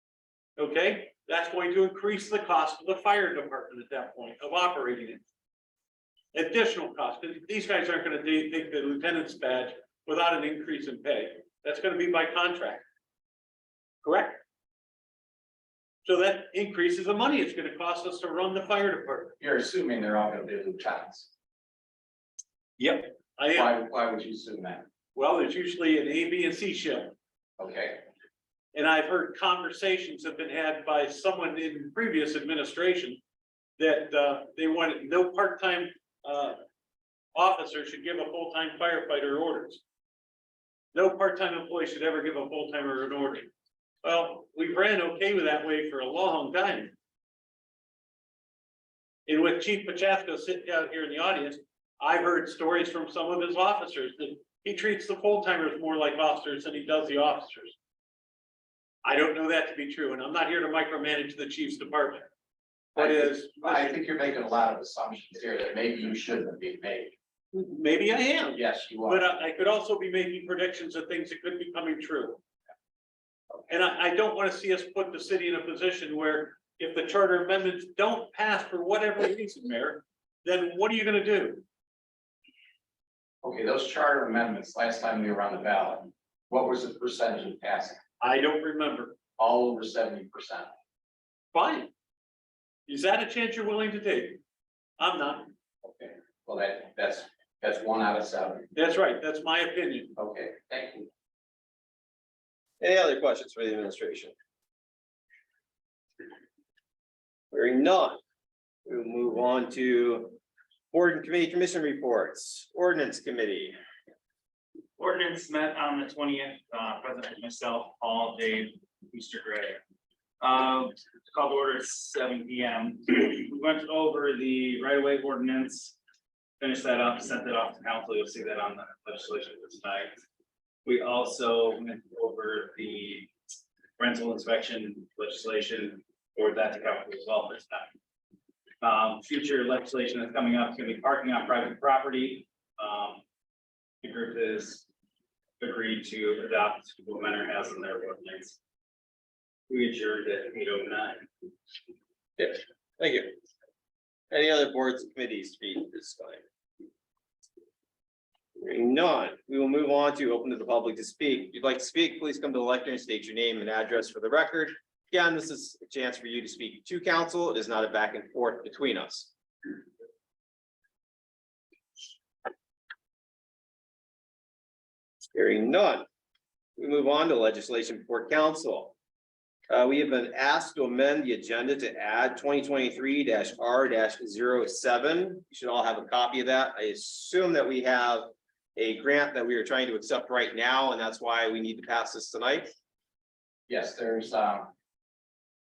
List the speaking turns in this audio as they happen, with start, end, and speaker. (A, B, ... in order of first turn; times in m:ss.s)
0:00.6-0:05.2 A
0:06.3-0:12.8 A
0:14.0-0:14.4 A
0:16.0-0:19.3 A
0:19.4-0:21.3 B
0:22.8-0:23.7 A
0:23.5-0:24.8 B
0:25.1-0:27.1 A
0:27.6-0:28.0 B
0:28.7-0:33.2 A
0:33.8-0:36.6 A
0:37.3-0:39.8 A
0:40.9-0:43.5 A
0:44.0-0:46.9 A
0:49.2-0:57.7 A
0:59.0-1:02.3 A
1:03.0-1:04.0 A
1:03.0-1:07.1 B
1:07.5-1:12.4 A
1:08.5-1:09.3 B
1:13.7-1:21.6 A
1:23.4-1:28.0 B
1:28.2-1:29.2 A
1:29.4-1:30.7 B
1:31.5-1:31.9 A
1:32.9-1:34.4 A
1:35.0-1:35.5 A
1:35.8-1:38.7 B
1:38.7-1:40.1 A
1:40.2-1:41.1 B
1:42.8-1:44.3 C
1:47.5-1:48.2 C
1:48.8-1:50.4 C
1:50.9-1:53.8 C
1:55.0-1:59.8 D
2:00.4-2:06.0 D
2:06.6-2:10.2 D
2:10.8-2:13.3 D
2:14.0-2:17.9 D
2:18.8-2:23.2 D
2:24.0-2:24.8 D
2:25.6-2:28.6 D
2:29.7-2:31.2 D
2:32.4-2:33.3 C
2:34.3-2:36.4 C
2:38.6-2:49.3 C
2:55.3-2:56.1 C
2:56.8-2:58.9 C
2:59.7-3:12.7 C
3:13.7-3:14.7 B